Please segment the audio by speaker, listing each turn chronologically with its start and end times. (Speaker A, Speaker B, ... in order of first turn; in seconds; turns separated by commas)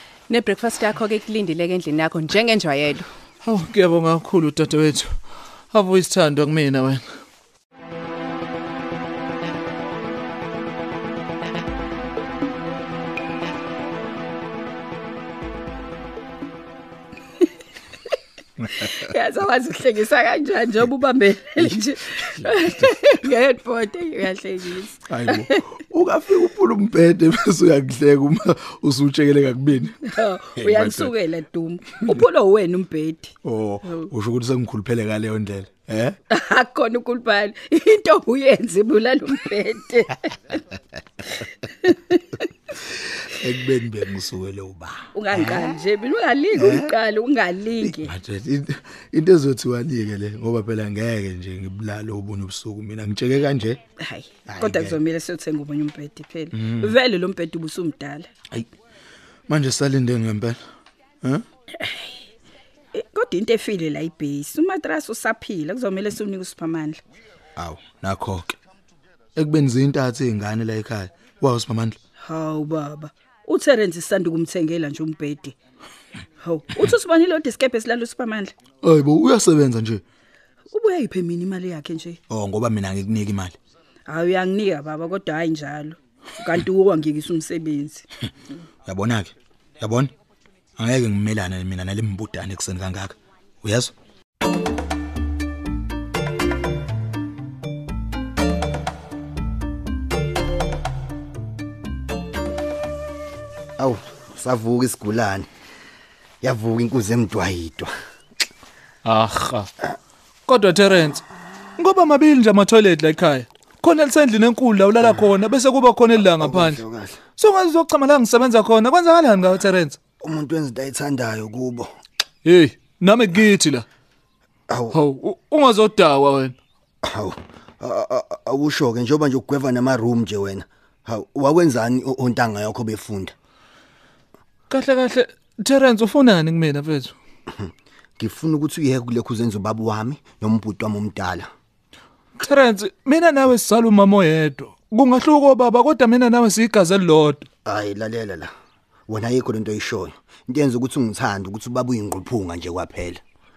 Speaker A: 0.3-3.1, Speaker B: 3.4-5.2, Speaker B: 5.7-7.0, Speaker C: 18.7-25.6, Speaker D: 21.6-22.7, Speaker D: 25.1-30.0, Speaker C: 30.0-34.0, Speaker D: 30.6-31.1, Speaker D: 33.4-36.2, Speaker C: 36.3-40.5, Speaker C: 41.8-42.2, Speaker D: 42.9-45.8, Speaker C: 45.1-48.1, Speaker D: 46.5-46.9, Speaker D: 47.8-53.8, Speaker C: 54.0-58.3, Speaker D: 54.5-55.0, Speaker D: 56.5-57.0, Speaker D: 59.5-60.6, Speaker C: 61.8-62.1, Speaker C: 62.9-67.0, Speaker D: 67.6-68.6, Speaker D: 69.3-72.0, Speaker C: 72.2-75.6, Speaker C: 76.4-78.5, Speaker D: 78.8-80.0, Speaker C: 80.7-82.2, Speaker D: 82.3-83.6, Speaker C: 84.1-88.1, Speaker D: 88.8-90.1, Speaker D: 90.8-93.9, Speaker E: 103.8-105.5, Speaker E: 106.4-107.9, Speaker B: 109.0-109.7, Speaker B: 110.5-111.2, Speaker B: 111.8-116.8, Speaker E: 116.3-117.2, Speaker B: 117.4-120.0, Speaker E: 120.2-121.9, Speaker B: 122.5-123.8, Speaker E: 124.7-125.0, Speaker B: 124.9-126.5, Speaker E: 127.0-133.3, Speaker B: 134.7-137.2, Speaker E: 137.5-141.5, Speaker B: 142.4-147.5, Speaker E: 147.7-148.5, Speaker E: 149.1-153.2